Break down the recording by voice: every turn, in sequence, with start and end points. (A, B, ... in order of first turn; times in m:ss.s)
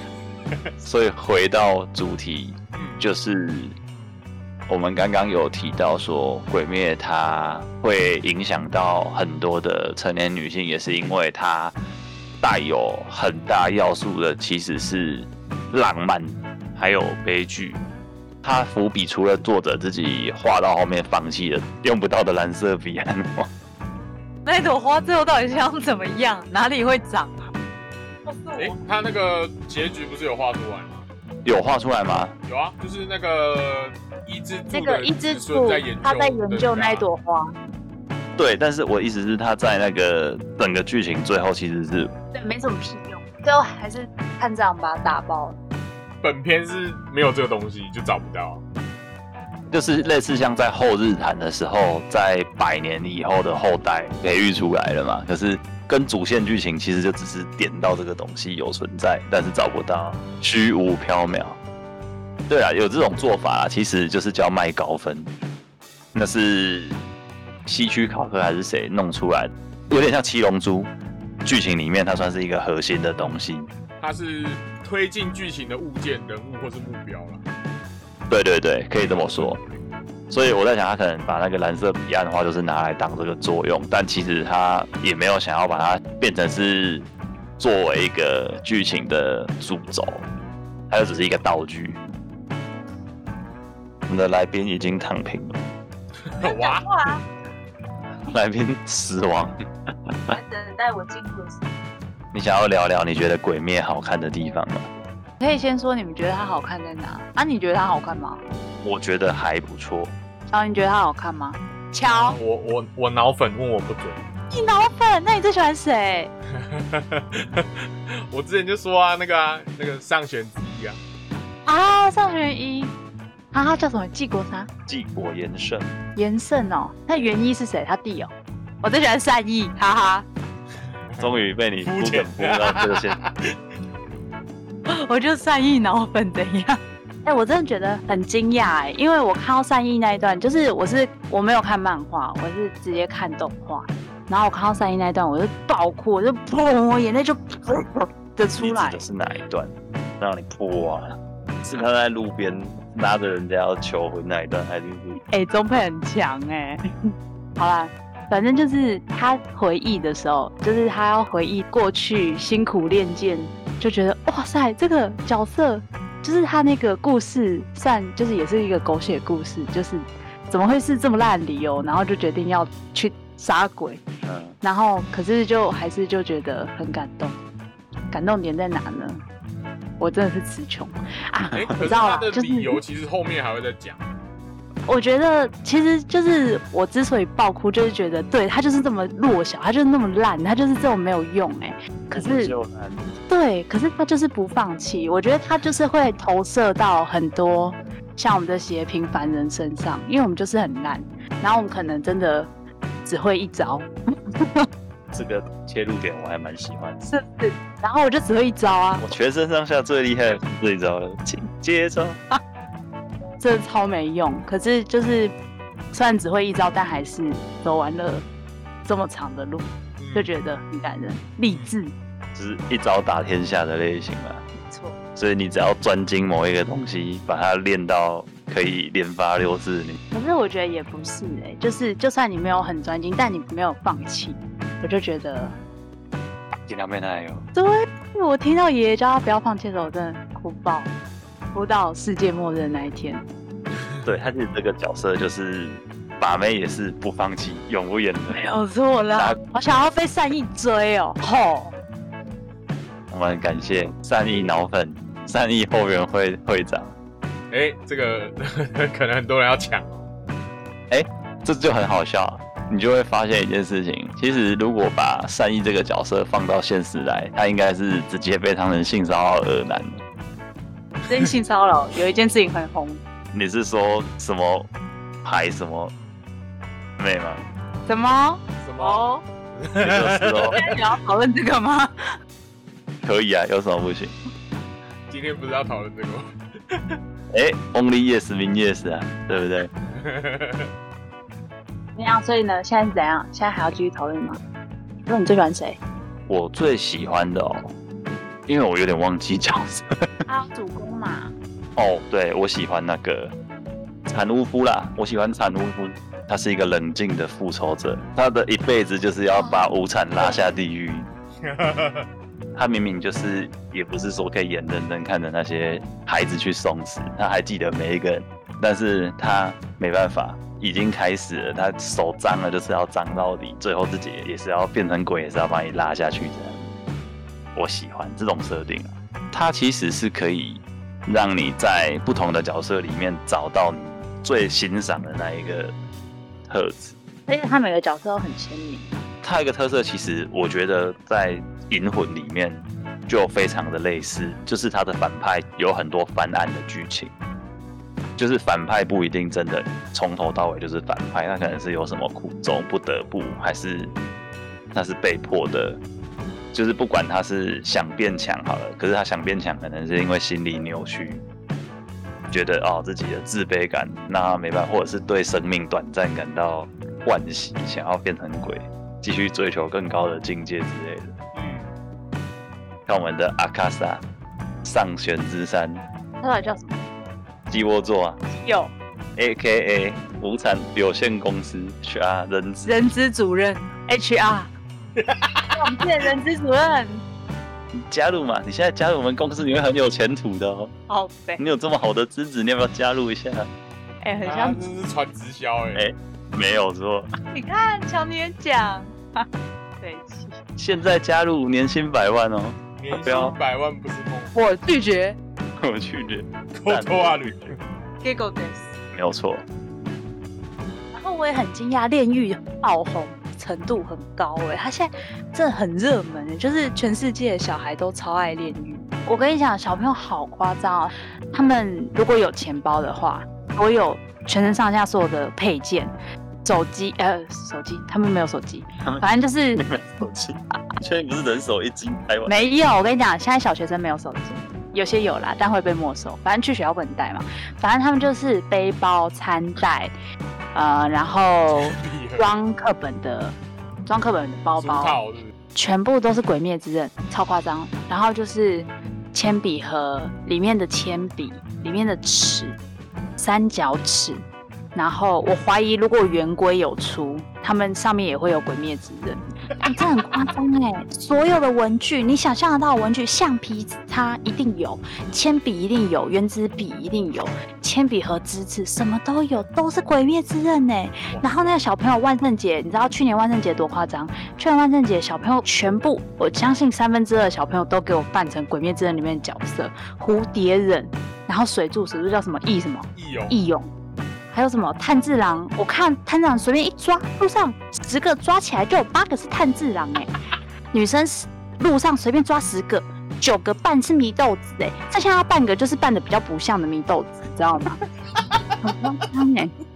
0:00.8-0:03.7 A
0:02.7-0:03.0 B
0:04.7-0:11.8 A
0:12.4-0:17.8 A
0:18.4-0:23.5 A
0:24.4-0:27.5 C
0:28.2-0:28.8 C
0:28.6-0:31.1 B
0:31.4-0:32.3 A
0:32.4-0:37.0 B
0:34.7-0:37.5 C
0:38.4-0:42.1 A
0:42.3-0:45.6 C
0:46.2-0:48.6 B
0:49.7-1:01.6 A
1:02.5-1:05.3 A
1:06.1-1:07.0 A
1:07.6-1:10.9 A
1:11.4-1:13.7 A
1:14.0-1:17.4 B
1:18.3-1:19.6 A
1:19.1-1:19.6 B
1:20.3-1:27.1 A
1:27.6-1:30.3 A
1:30.9-1:32.0 A
1:34.1-1:35.6 A
1:36.2-1:36.9 B
1:36.4-1:37.2 C
1:38.3-1:39.6 A
1:40.1-1:40.4 A
1:40.3-1:41.7 C
1:42.3-1:44.9 A
1:45.4-1:48.4 C
1:48.8-1:50.1 A
1:50.5-1:52.4 C
1:52.1-1:54.2 B
1:54.5-1:56.3 C
1:56.5-2:01.0 B
2:01.6-2:02.9 C
2:03.5-2:04.7 C
2:04.9-2:05.9 A
2:06.2-2:10.2 C
2:11.1-2:13.3 B
2:11.2-2:13.2 A
2:14.9-2:29.0 C
2:28.6-2:35.2 A
2:35.3-2:36.9 C
2:37.6-2:54.0 C
2:54.2-2:54.6 A
2:54.6-2:57.4 C
2:58.1-2:59.2 C
3:00.0-3:02.8 C
3:01.5-3:04.0 B
3:04.8-3:12.5 C
3:12.1-3:13.1 A
3:13.3-3:22.5 C
3:23.0-3:23.9 C
3:24.4-3:24.6 C
3:25.1-3:27.0 A
3:27.1-3:29.1 C
3:29.0-3:32.2 A
3:33.4-3:35.3 C
3:35.9-3:38.2 C
3:38.8-3:41.9 C
3:40.0-3:40.3 B
3:41.5-3:41.8 B
3:42.3-3:44.4 A
3:44.5-3:45.0 C
3:45.2-3:50.0 A
3:50.1-3:55.6 C
3:56.7-3:57.5 A
3:57.5-4:00.9 C
4:01.5-4:03.2 C
4:04.0-4:08.4 A
4:08.3-4:11.7 C
4:13.1-4:16.9 A
4:17.5-4:20.1 B
4:20.9-4:30.0 A
4:31.1-4:33.0 C
4:33.3-4:34.7 A
4:35.2-4:35.9 A
4:37.0-4:37.4 A
4:37.8-4:39.2 C
4:38.6-4:40.8 B
4:39.8-4:40.6 A
4:40.5-4:41.9 C
4:43.0-4:44.1 A
4:45.1-4:47.0 B
4:47.3-4:49.7 A
4:49.8-4:50.7 B
4:51.9-4:54.4 C
4:55.0-4:55.8 C
4:56.3-4:57.7 A
4:58.5-5:00.1 A
5:00.3-5:01.3 C
5:01.8-5:03.3 A
5:04.1-5:11.1 A
5:09.4-5:09.7 C
5:11.4-5:12.1 B
5:12.5-5:26.7 A
5:27.5-5:35.7 A
5:36.5-5:37.0 A
5:37.3-5:38.9 C
5:39.2-5:47.1 A
5:48.2-5:53.9 A
5:54.7-5:55.8 A
5:56.5-6:01.2 A
6:02.3-6:11.1 A
6:11.3-6:11.7 B
6:12.9-6:14.0 A
6:14.6-6:15.8 A
6:16.2-6:16.8 C
6:17.5-6:18.2 A
6:18.3-6:18.7 C
6:19.2-6:22.7 A
6:22.6-6:24.5 C
6:25.0-6:25.6 B
6:25.5-6:27.0 C
6:27.7-6:30.7 A
6:30.9-6:31.4 C
6:31.4-6:33.5 A
6:34.0-6:34.6 C
6:34.2-6:35.8 B
6:35.7-6:37.1 A
6:37.3-6:39.2 C
6:39.8-6:40.4 C
6:40.6-6:43.4 A
6:42.8-6:44.3 B
6:44.3-6:45.2 C
6:45.6-6:47.6 A
6:46.5-6:47.6 B
6:48.0-6:48.7 C
6:48.9-6:49.4 A
6:50.9-7:09.7 C
7:08.8-7:12.4 A
7:12.2-7:19.9 C
7:20.5-7:25.0 C
7:21.5-7:22.3 B
7:24.6-7:25.3 B
7:25.5-7:32.6 C
7:33.2-8:03.7 C
7:51.1-7:51.5 B
8:02.9-8:03.4 B
8:04.3-8:10.1 C
8:10.7-8:17.8 C
8:18.1-8:18.6 B
8:18.6-8:19.5 C